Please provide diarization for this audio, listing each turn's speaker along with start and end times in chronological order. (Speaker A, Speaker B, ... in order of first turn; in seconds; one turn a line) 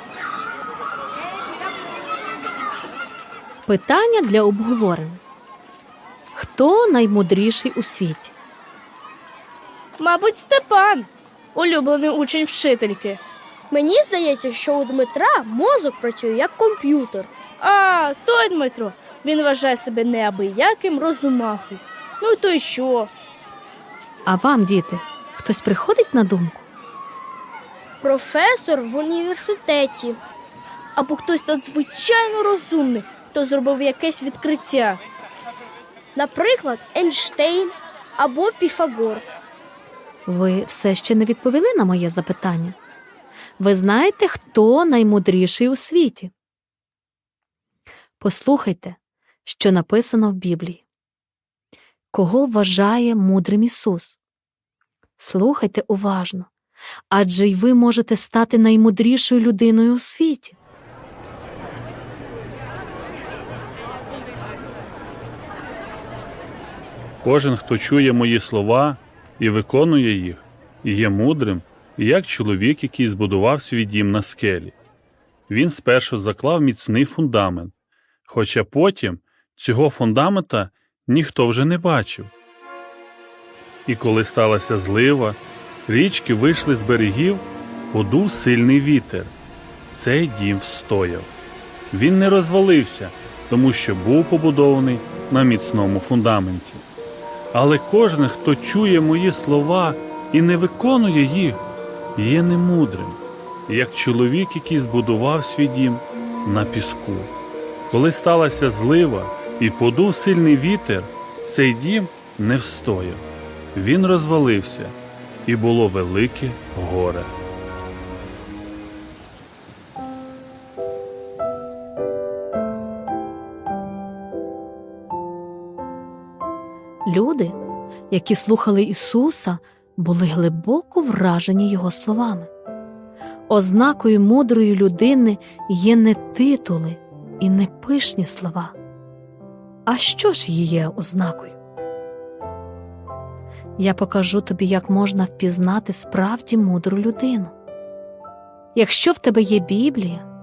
Speaker A: 3.7-5.2
Speaker A: 6.3-8.3
Speaker B: 10.0-13.2
Speaker C: 13.7-17.3
Speaker B: 17.6-23.1
Speaker A: 24.3-26.7
Speaker C: 28.0-30.2
Speaker B: 31.0-35.0
Speaker C: 36.2-39.3
Speaker A: 40.3-42.8
Speaker A: 43.6-46.3
Speaker A: 48.2-50.9
Speaker A: 52.1-54.2
Speaker A: 55.2-56.5
Speaker A: 57.1-60.6
Speaker D: 67.2-74.8
Speaker D: 75.5-77.7
Speaker D: 78.3-82.3
Speaker D: 83.9-89.3
Speaker D: 89.9-91.3
Speaker D: 91.9-96.8
Speaker D: 97.5-101.6
Speaker D: 102.2-107.3
Speaker D: 107.9-117.3
Speaker A: 127.1-127.6
Speaker A: 128.1-132.5
Speaker A: 133.5-138.7
Speaker A: 139.9-141.6
Speaker A: 143.8-147.5
Speaker A: 148.8-150.3